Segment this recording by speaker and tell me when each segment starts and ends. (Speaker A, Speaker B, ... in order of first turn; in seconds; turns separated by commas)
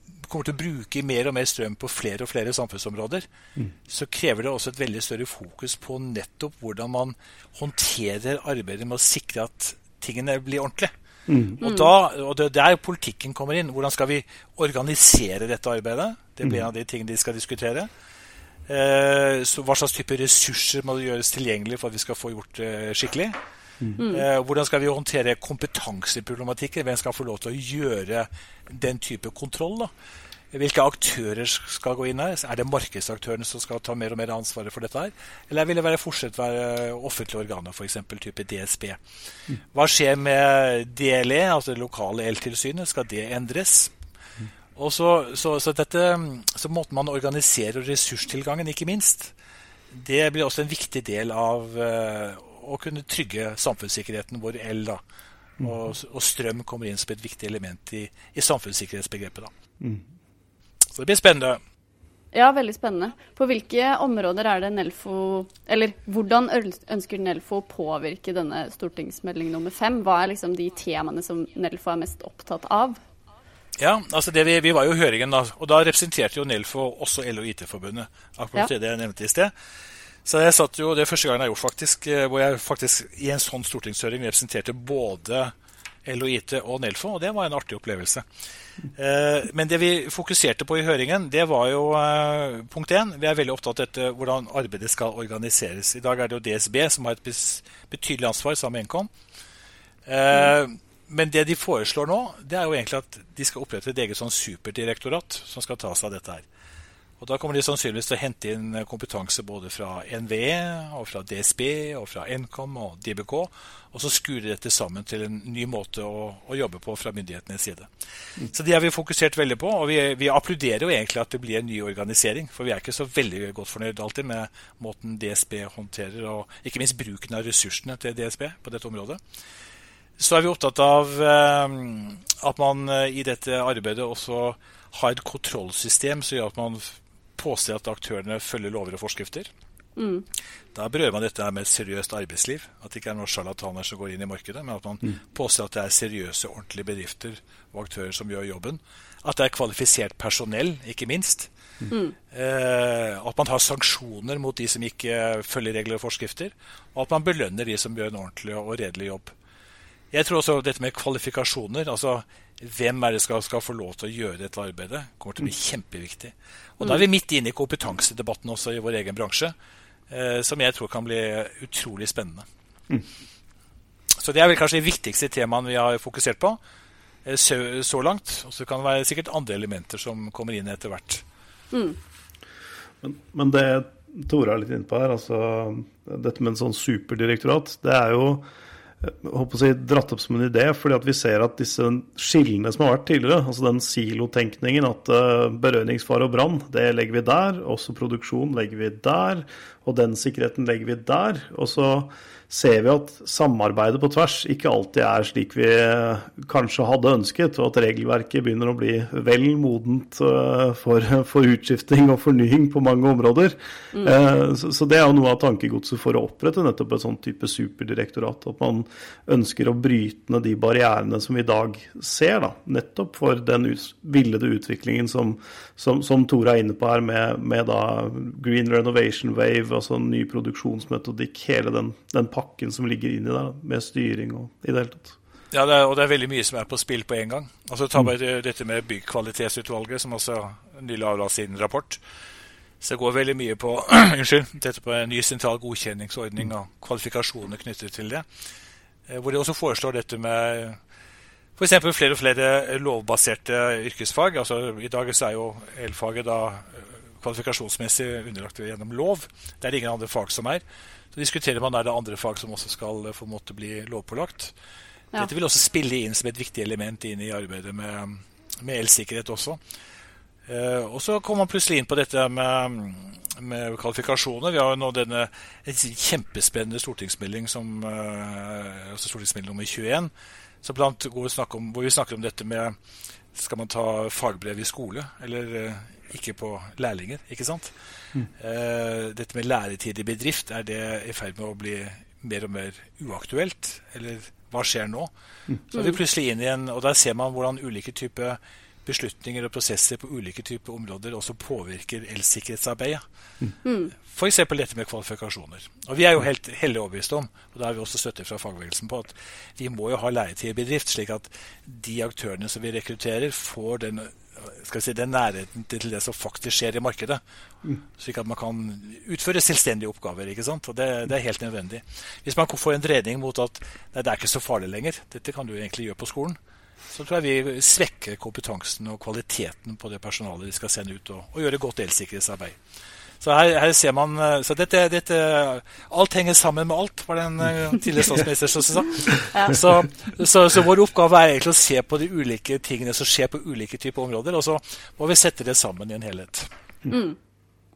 Speaker A: 0.2-3.2, Speaker A: 3.9-10.9, Speaker B: 11.3-11.6, Speaker A: 11.6-17.9, Speaker C: 11.6-11.9, Speaker A: 18.7-23.4, Speaker C: 24.0-24.2, Speaker A: 24.1-29.9, Speaker A: 30.5-39.0, Speaker A: 39.7-43.9, Speaker A: 44.8-49.3, Speaker A: 49.9-55.0, Speaker A: 55.6-59.5, Speaker A: 60.9-61.6, Speaker C: 62.3-73.0, Speaker A: 73.8-79.5, Speaker A: 80.3-85.5, Speaker A: 86.1-88.2, Speaker A: 89.0-99.1, Speaker A: 100.1-106.5, Speaker A: 107.2-117.9, Speaker A: 118.4-129.2, Speaker A: 130.2-139.5, Speaker C: 140.0-140.2, Speaker A: 140.8-151.5, Speaker C: 151.9-152.2, Speaker A: 152.3-159.3, Speaker A: 160.1-169.5, Speaker A: 170.1-172.4, Speaker A: 174.2-176.6, Speaker A: 177.3-181.2, Speaker C: 181.7-182.0, Speaker B: 183.0-188.4, Speaker B: 189.0-235.2, Speaker A: 235.5-242.0, Speaker A: 242.8-248.2, Speaker A: 249.1-250.8, Speaker A: 251.6-260.6, Speaker A: 261.1-264.5, Speaker A: 265.2-269.6, Speaker A: 270.5-280.1, Speaker A: 280.6-282.8, Speaker A: 283.3-287.7, Speaker A: 288.4-295.1, Speaker A: 295.7-303.0, Speaker C: 303.6-303.9, Speaker A: 303.9-317.2, Speaker A: 318.0-326.4, Speaker A: 326.9-332.6, Speaker A: 333.2-346.5, Speaker C: 339.3-339.6, Speaker C: 346.9-347.2